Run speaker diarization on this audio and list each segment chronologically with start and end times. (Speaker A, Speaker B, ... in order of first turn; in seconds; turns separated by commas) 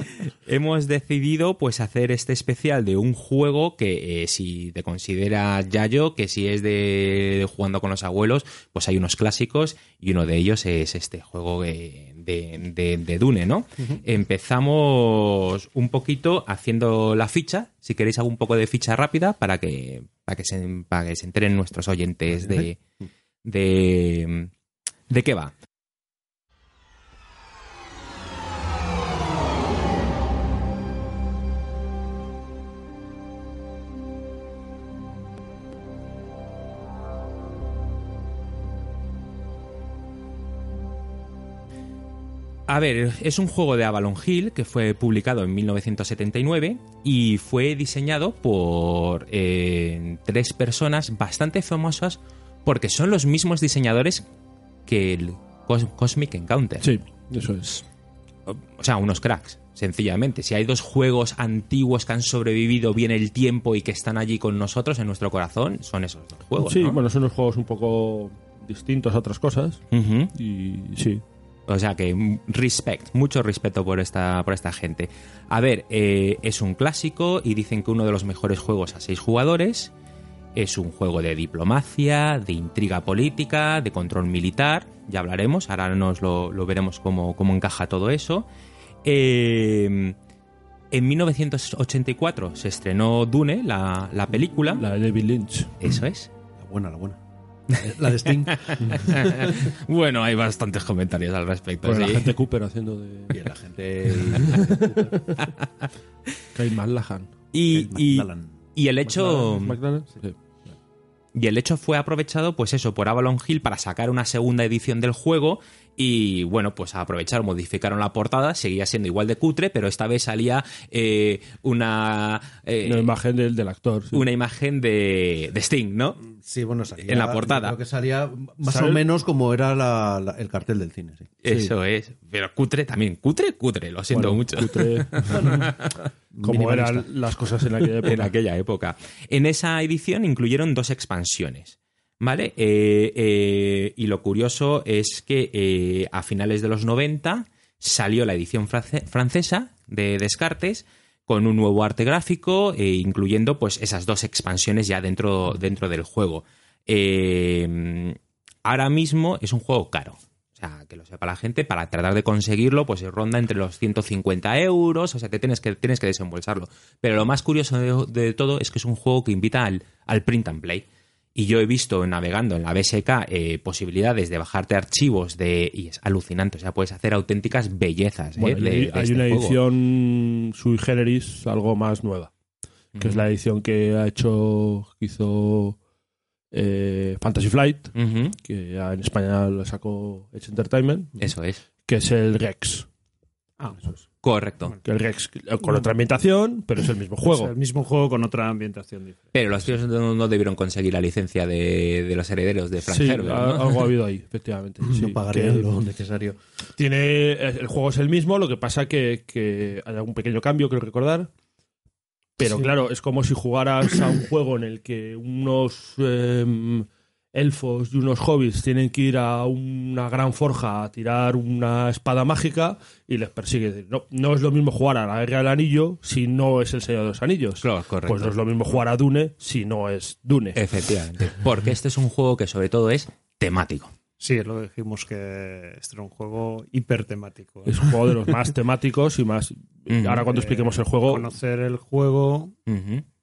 Speaker A: 0.5-22.8, Speaker B: 22.3-22.7, Speaker A: 23.4-24.5, Speaker A: 25.1-25.5, Speaker A: 42.7-54.2, Speaker A: 54.9-56.9, Speaker C: 56.8-57.8, Speaker A: 58.5-67.0, Speaker C: 66.6-69.8, Speaker A: 69.9-70.3, Speaker C: 70.3-71.2, Speaker A: 71.7-79.9, Speaker A: 80.5-88.5, Speaker A: 89.0-90.2, Speaker A: 90.9-94.8, Speaker C: 94.7-95.7, Speaker A: 95.8-96.3, Speaker B: 96.6-97.2, Speaker B: 97.7-99.0, Speaker A: 98.5-102.3, Speaker C: 101.8-103.4, Speaker B: 103.3-105.1, Speaker C: 104.4-105.0, Speaker A: 105.4-105.9, Speaker C: 106.5-107.3, Speaker A: 107.5-109.8, Speaker B: 107.7-108.5, Speaker C: 109.0-110.3, Speaker A: 111.3-123.1, Speaker C: 122.8-124.2, Speaker A: 124.1-126.2, Speaker B: 126.2-131.3, Speaker A: 127.0-127.8, Speaker C: 128.7-129.0, Speaker A: 131.4-135.9, Speaker C: 134.1-135.7, Speaker B: 136.3-137.1, Speaker C: 136.4-138.3, Speaker A: 138.0-179.6, Speaker C: 178.4-182.3, Speaker A: 182.9-183.2, Speaker C: 183.0-185.8, Speaker C: 186.5-191.1, Speaker A: 187.9-188.3, Speaker A: 191.2-191.6, Speaker C: 191.9-192.9, Speaker A: 194.2-194.8, Speaker C: 194.8-197.5, Speaker D: 197.2-199.3, Speaker A: 199.3-203.9, Speaker C: 202.8-205.7, Speaker B: 204.8-206.4, Speaker C: 206.8-211.3, Speaker C: 212.4-230.6, Speaker A: 227.6-228.3, Speaker A: 230.5-233.9, Speaker D: 234.2-237.9, Speaker C: 237.7-241.3, Speaker A: 239.9-240.3, Speaker D: 240.3-242.5, Speaker A: 242.7-243.0